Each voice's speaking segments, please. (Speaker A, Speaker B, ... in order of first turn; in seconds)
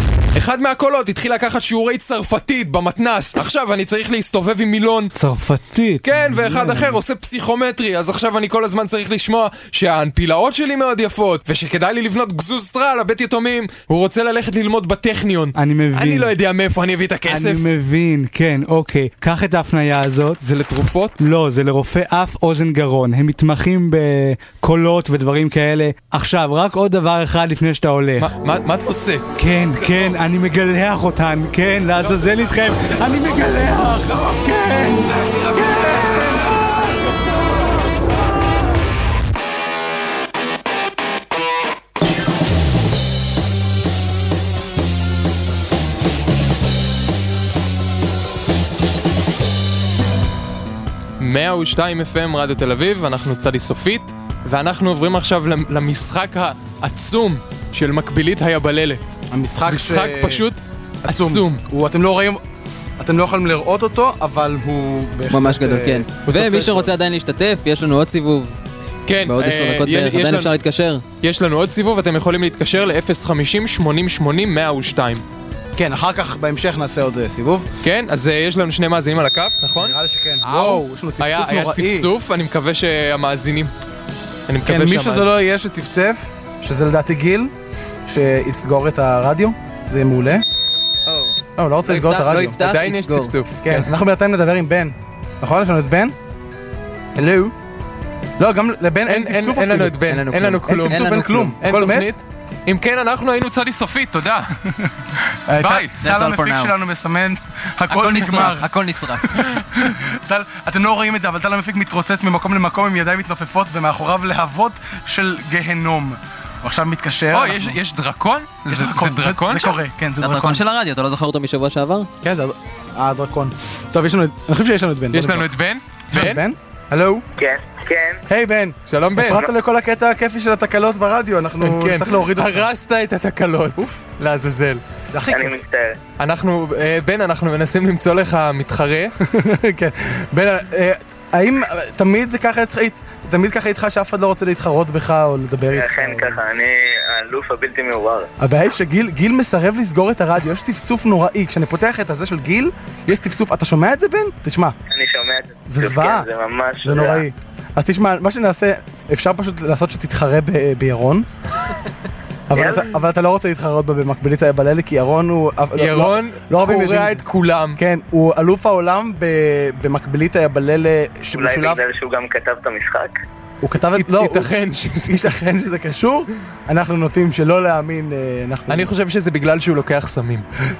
Speaker A: 0.3-5.1, 6.0-17.6, 20.4-21.2, 28.2-29.2, 51.2-59.0, 59.6-61.6, 69.1-70.5, 71.2-75.2, 77.8-83.7, 84.5-85.3, 92.6-93.9, 99.1-104.6, 105.6-106.0, 117.3-119.8, 125.1-126.4, 128.9-129.4, 131.6-134.8, 136.2-139.1, 165.8-167.8, 173.9-175.3, 178.7-180.4
Speaker B: 5.2-7.0, 15.6-16.3, 17.3-20.4, 21.2-28.3, 29.4-34.0
Speaker C: 33.1-37.0, 59.3-60.4, 61.0-62.4, 63.0-66.9, 75.8-77.7, 79.8-82.1, 84.6-87.5, 88.0-90.4, 91.5-92.6, 93.6-96.1, 97.2-97.5, 98.4-100.0, 100.7-102.1, 105.5-108.7, 109.2-117.8, 118.7-120.6, 122.2-125.5, 126.1-127.2, 128.3-132.7, 135.1-135.6, 139.2-146.4, 148.4-154.7, 155.7-156.2, 156.8-161.2, 162.5-167.2, 167.8-171.8, 173.6-174.5, 175.0-178.9
Speaker D: 65.3-68.6, 69.2-71.0, 91.1-91.3, 91.8-93.3, 100.1-101.5, 106.0-106.7, 107.9-109.5, 120.2-122.1
Speaker E: 127.4-128.2, 135.3-136.0, 145.7-148.3, 154.9-157.2, 162.5-162.8, 171.3-173.1